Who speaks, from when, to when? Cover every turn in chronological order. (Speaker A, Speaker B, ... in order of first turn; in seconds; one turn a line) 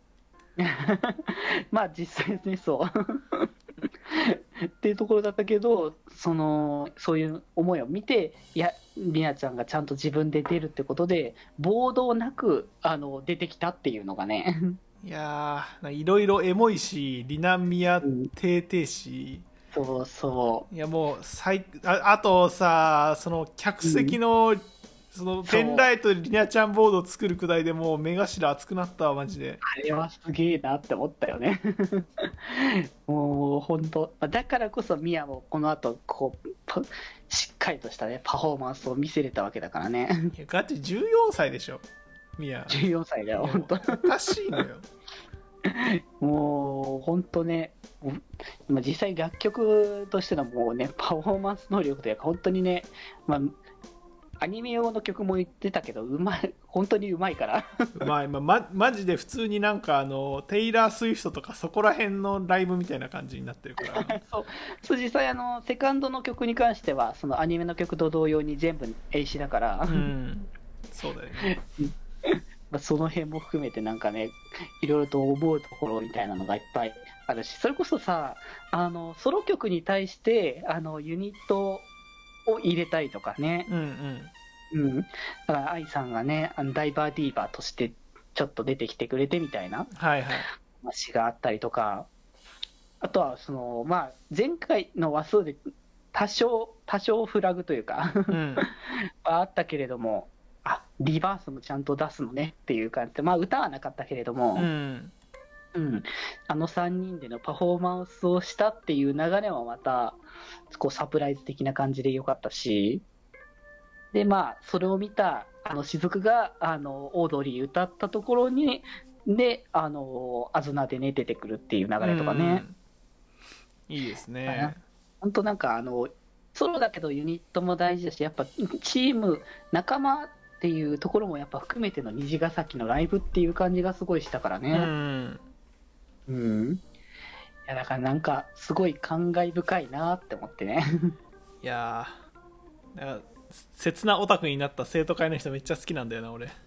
Speaker A: 0.6-3.5
Speaker A: 4.1-14.8
Speaker B: 15.0-19.4
Speaker A: 18.0-18.3
Speaker A: 19.7-20.7
Speaker B: 20.7-29.6
Speaker A: 23.8-24.2
Speaker A: 25.4-25.9
Speaker A: 29.6-40.3
Speaker B: 40.3-41.8
Speaker B: 42.4-42.8
Speaker A: 42.7-44.0
Speaker B: 43.4-44.9
Speaker A: 45.7-53.6
Speaker A: 54.4-58.0
Speaker B: 58.0-64.2
Speaker A: 63.8-70.1
Speaker B: 69.9-71.5
Speaker A: 71.4-81.9
Speaker A: 82.5-83.7
Speaker B: 83.7-84.3
Speaker A: 84.7-89.9
Speaker B: 89.9-90.5
Speaker A: 90.7-92.1
Speaker A: 93.0-104.7
Speaker B: 98.3-98.7
Speaker B: 104.5-105.1
Speaker A: 105.7-113.0
Speaker A: 114.1-122.6
Speaker B: 122.0-122.8
Speaker B: 123.9-124.8
Speaker A: 124.5-134.9
Speaker B: 134.7-135.4
Speaker A: 136.3-136.8
Speaker A: 137.7-141.1
Speaker B: 141.6-142.2
Speaker B: 142.9-146.5